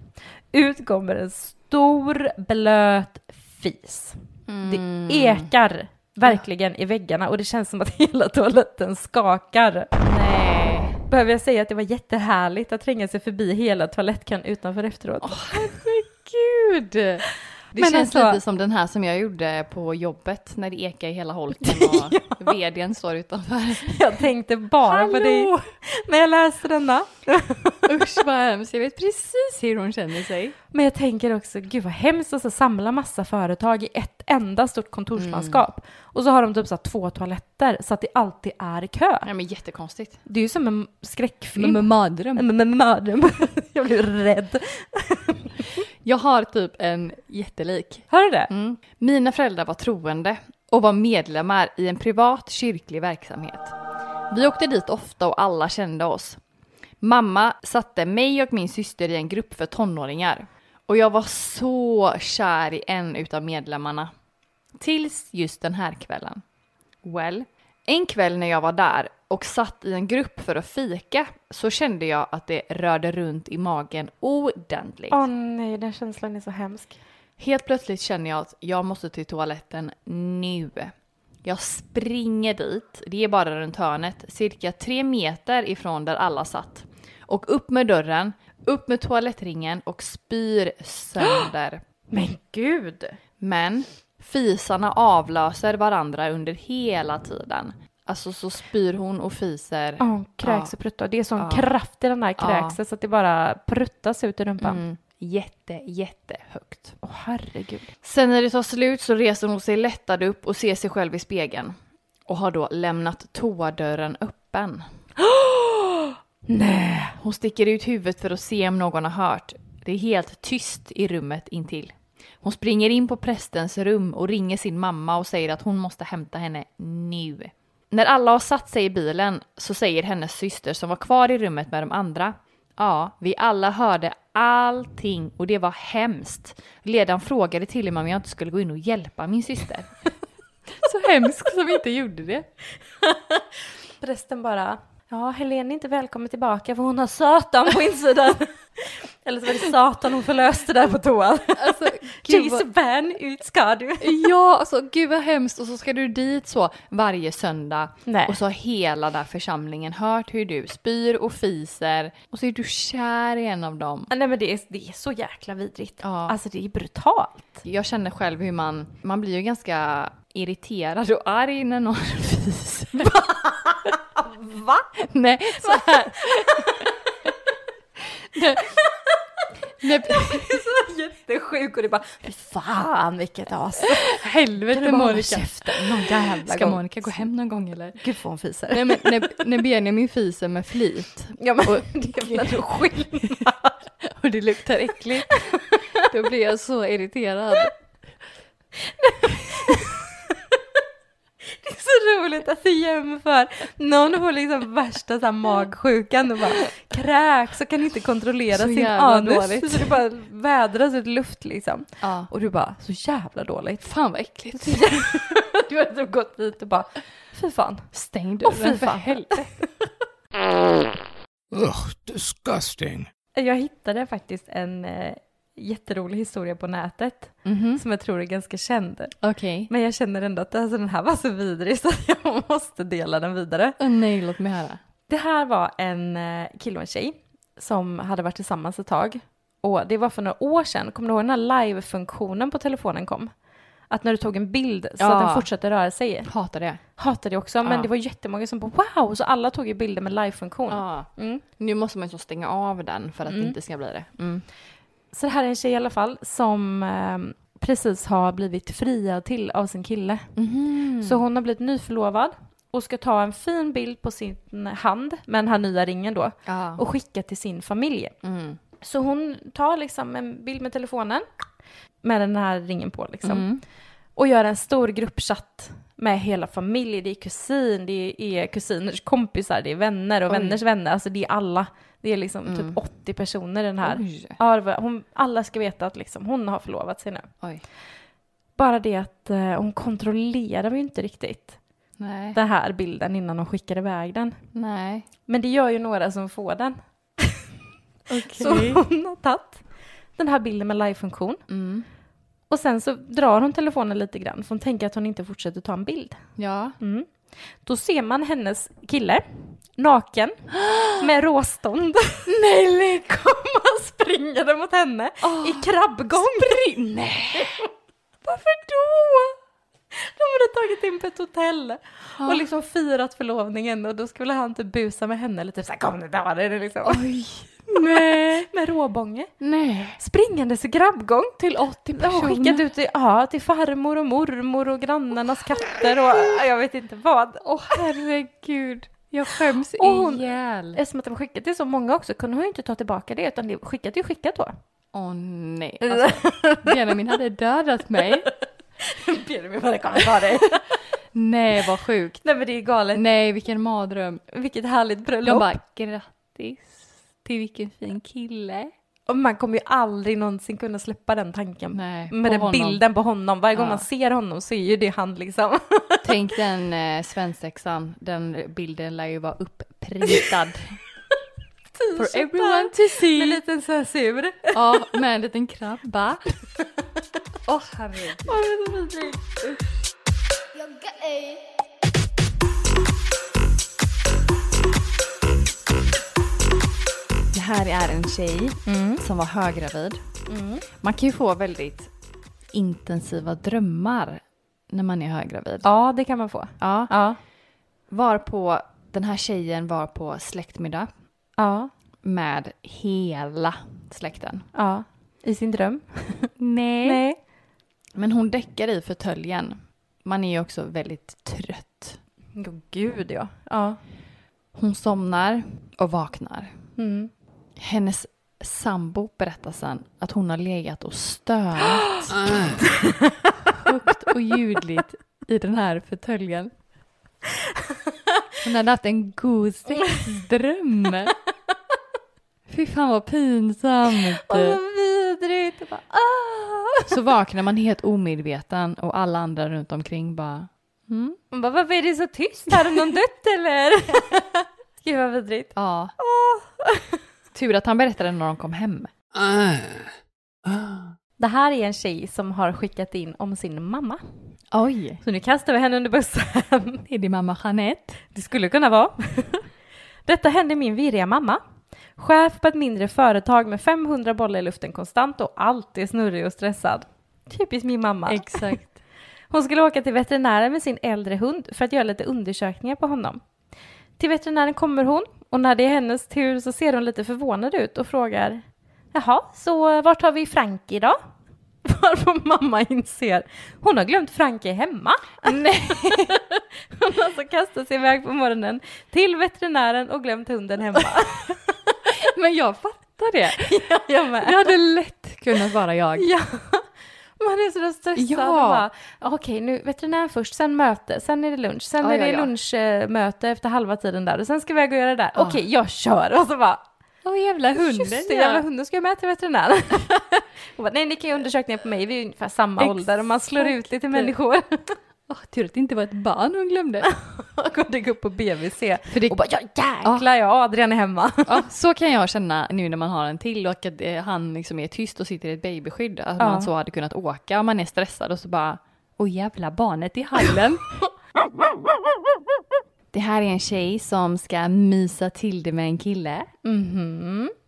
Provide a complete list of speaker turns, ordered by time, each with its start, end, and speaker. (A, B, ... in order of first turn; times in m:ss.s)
0:00.5-0:09.9 A
0:04.5-0:05.5 B
0:10.0-0:11.0 B
0:11.1-0:15.7 A
0:15.2-0:24.0 B
0:17.7-0:18.4 A
0:21.6-0:22.5 A
0:23.9-0:27.8 A
0:24.8-0:25.7 B
0:27.9-0:30.6 B
0:30.7-0:39.3 A
0:35.2-0:35.6 B
0:39.2-0:40.2 B
0:40.3-0:45.7 A
0:41.6-0:42.4 B
0:46.0-0:53.7 B
0:48.1-0:48.5 A
0:54.3-0:56.4 B
0:57.0-1:04.1 B
1:04.8-1:06.4 B
1:07.0-1:15.2 B
1:15.1-1:17.0 A
1:17.4-1:20.9 B
1:21.4-1:31.8 B
1:32.1-1:33.2 A
1:33.4-1:40.8 B
1:40.0-1:44.8 A
1:41.4-1:41.7 B
1:42.4-1:42.8 B
1:44.6-1:47.0 B
1:47.0-1:47.9 A
1:48.0-1:54.9 B
1:55.2-1:57.2 A
1:57.2-2:20.0 B
2:20.8-2:22.5 B
2:23.0-2:23.4 A
2:24.0-2:34.2 A
2:31.6-2:32.7 B
2:34.0-2:44.1 B
2:38.1-2:38.4 A
2:44.1-2:47.6 A
2:46.0-2:46.4 B
2:47.6-2:53.1 B
2:53.0-2:54.9 A
2:55.0-2:56.8 B
2:55.6-2:57.3 A
2:58.3-2:58.6 B
2:58.5-3:07.1 A
2:59.8-3:00.7 B
3:04.0-3:08.0 B
3:08.0-3:09.4 A
3:08.7-3:13.2 B
3:11.4-3:13.8 A
3:14.0-3:17.7 B
3:15.5-3:15.8 A
3:19.0-3:20.1 A
3:21.5-3:34.0 A
3:28.5-3:30.0 B
3:32.0-3:32.3 B
3:33.8-3:35.2 B
3:34.5-3:39.8 A
3:37.9-3:39.6 B
3:41.5-3:43.1 C
3:43.3-3:53.8 A
3:47.4-3:47.8 B
3:49.2-3:49.7 B
3:53.8-3:54.8 B
3:55.1-4:06.3 A
4:05.0-4:05.5 B
4:06.2-4:06.8 B
4:06.8-4:11.4 A
4:07.6-4:07.9 B
4:10.7-4:14.5 B
4:13.3-4:13.6 A
4:15.1-4:20.3 A
4:20.4-4:21.2 B
4:21.0-4:28.2 A
4:26.4-4:26.8 B
4:28.2-4:28.6 B
4:28.8-4:31.2 A
4:32.0-4:33.5 A
4:33.2-4:33.6 B
4:34.2-4:47.3 A
4:40.3-4:40.6 B
4:42.5-4:42.8 B
4:43.8-4:44.4 B
4:48.6-4:51.6 A
4:52.0-4:52.4 B
4:52.3-4:54.5 A
4:54.5-4:55.1 B
4:55.2-4:57.4 A
4:58.1-4:58.8 B
4:58.3-5:01.4 A
5:01.5-5:01.9 B
5:02.5-5:16.6 A
5:06.4-5:06.8 B
5:10.6-5:10.9 B
5:12.3-5:13.0 B
5:15.2-5:17.6 B
5:17.3-5:17.6 A
5:18.2-5:19.4 A
5:19.9-5:27.0 A
5:22.2-5:22.4 B
5:26.8-5:28.5 B
5:27.7-5:29.4 A
5:29.4-5:30.0 B
5:30.0-5:37.9 A
5:31.4-5:32.6 B
5:37.4-5:40.8 B
5:39.3-5:44.5 A
5:44.9-5:48.3 B
5:45.9-5:46.7 A
5:48.2-5:50.6 A
5:51.1-5:52.3 B
5:52.2-5:53.0 A
5:52.9-5:54.2 B
5:54.3-5:55.6 A
5:55.2-5:58.7 B
5:59.1-6:06.1 A
6:01.7-6:02.8 B
6:03.6-6:03.9 B
6:06.0-6:10.8 B
6:11.8-6:14.9 A
6:12.0-6:13.4 B
6:14.5-6:16.2 B
6:17.5-6:18.4 B
6:18.3-6:19.6 A
6:27.3-6:30.0 B
6:28.7-6:29.0 A
6:30.3-6:30.6 A
6:30.8-6:31.9 B
6:32.5-6:35.7 B
6:35.6-6:37.2 A
6:36.6-6:37.0 B
6:37.9-6:40.9 B
6:41.4-6:41.7 A
6:42.0-6:44.5 B
6:44.5-6:47.2 A
6:46.4-6:47.0 B
6:48.0-6:52.0 B
6:52.4-6:53.8 A
6:54.5-6:56.6 B
6:56.8-6:57.1 A
6:57.6-7:02.4 B
7:02.2-7:02.5 C
7:03.6-7:06.5 B
7:08.4-7:11.1 B
7:12.5-7:14.6 B
7:14.3-7:16.9 A
7:16.9-7:21.2 B
7:21.3-7:24.3 A
7:22.5-7:22.8 B
7:24.8-7:27.0 A
7:25.5-7:25.9 B
7:27.3-7:28.9 B
7:29.2-7:29.9 C
7:30.4-7:30.9 C
7:31.2-7:34.0 A
7:34.5-7:35.0 B
7:35.0-7:36.8 A
7:36.9-7:38.0 B
7:38.1-7:39.5 A
7:40.0-7:41.4 A
7:42.0-7:53.2 A
7:48.1-7:48.8 B
7:54.0-8:01.0 A
8:01.6-8:06.2 A
8:05.2-8:06.2 B
8:06.7-8:11.4 A
8:11.9-8:13.4 B
8:13.3-8:14.5 A
8:14.2-8:16.1 B
8:16.0-8:26.6 A
8:18.0-8:18.6 B
8:21.8-8:22.3 B
8:25.2-8:25.4 B
8:27.0-8:28.4 B
8:27.6-8:34.8 A
8:32.6-8:34.1 B
8:35.1-8:36.9 B
8:36.9-8:41.4 A
8:38.9-8:39.2 B
8:41.3-8:50.7 B
8:46.2-8:46.5 A
8:52.9-8:56.3 B
8:56.4-8:57.3 A